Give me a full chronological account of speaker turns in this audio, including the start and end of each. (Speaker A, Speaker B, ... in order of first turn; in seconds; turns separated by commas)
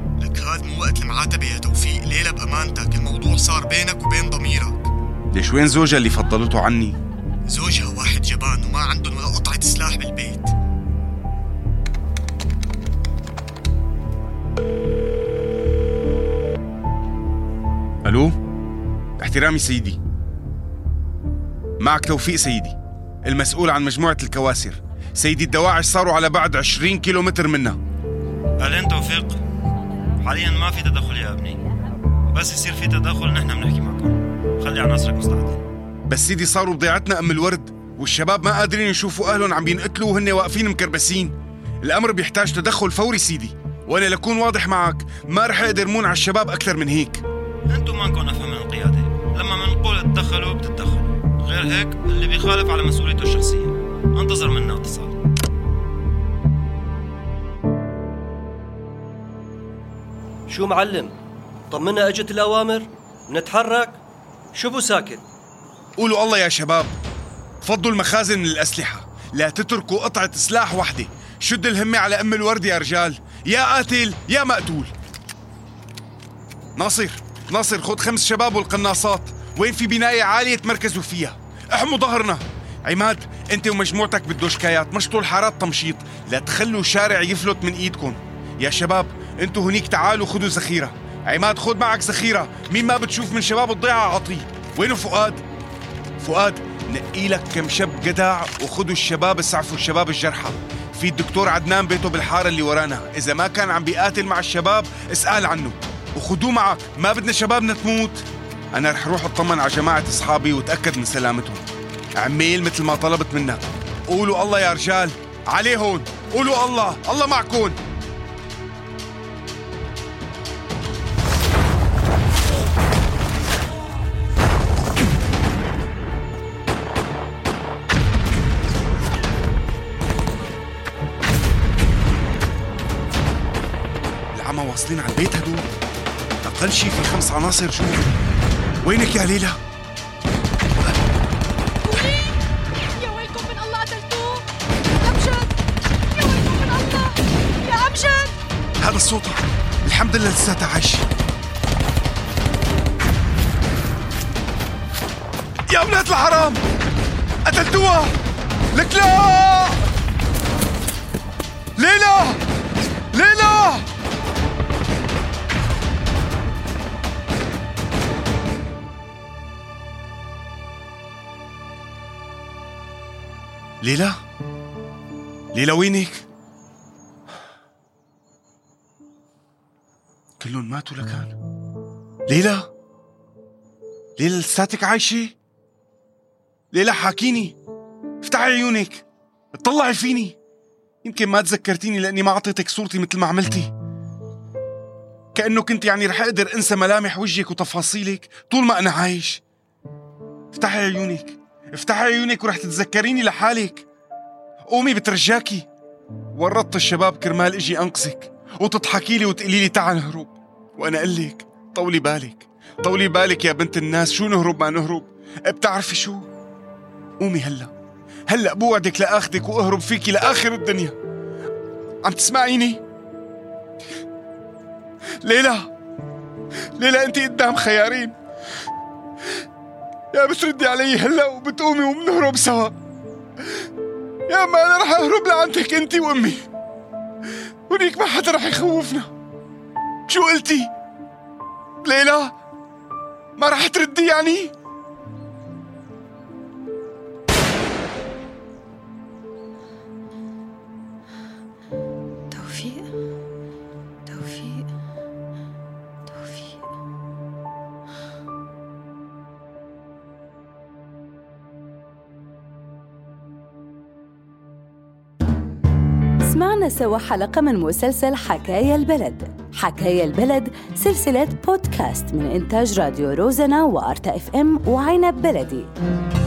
Speaker A: 0.2-4.9, Speaker B: 5.3-7.0, Speaker A: 7.5-10.5, Speaker B: 18.1-18.4, Speaker B: 19.2-20.0, Speaker B: 21.8-27.8, Speaker C: 28.6-29.4, Speaker C: 30.2-31.6, Speaker C: 32.3-35.6, Speaker B: 36.1-47.2, Speaker C: 47.7-55.1, Speaker D: 60.5-61.2, Speaker D: 61.7-64.0, Speaker D: 64.5-65.2, Speaker B: 66.0-66.9, Speaker B: 67.6-74.9, Speaker B: 76.8-95.4, Speaker B: 96.2-111.6, Speaker B: 112.2-117.8, Speaker B: 134.3-135.7, Speaker B: 136.4-138.1, Speaker B: 138.8-139.6, Speaker E: 141.8-142.4, Speaker E: 143.0-144.5, Speaker E: 145.0-145.5, Speaker E: 146.1-148.3, Speaker B: 148.8-151.1, Speaker B: 155.7-156.6, Speaker B: 157.5-158.1, Speaker B: 158.7-159.8, Speaker B: 161.8-162.4, Speaker B: 163.1-163.8, Speaker B: 173.8-174.2, Speaker B: 175.5-176.3, Speaker B: 180.4-181.4, Speaker B: 182.3-182.7, Speaker B: 184.2-185.3, Speaker B: 186.7-187.6, Speaker B: 188.2-190.4, Speaker B: 191.0-193.7, Speaker B: 195.3-199.4, Speaker B: 200.5-203.9, Speaker B: 204.7-205.7, Speaker B: 206.3-216.3, Speaker B: 217.2-217.7, Speaker B: 218.3-221.0, Speaker B: 222.0-222.8, Speaker B: 225.2-225.7, Speaker B: 226.8-228.2, Speaker B: 230.1-232.7, Speaker B: 234.3-236.4, Speaker B: 237.7-239.1, Speaker B: 240.1-240.7, Speaker B: 241.8-242.3, Speaker B: 243.4-244.5, Speaker E: 252.3-252.9, Speaker E: 254.1-254.7, Speaker E: 256.1-256.6, Speaker F: 266.2-275.7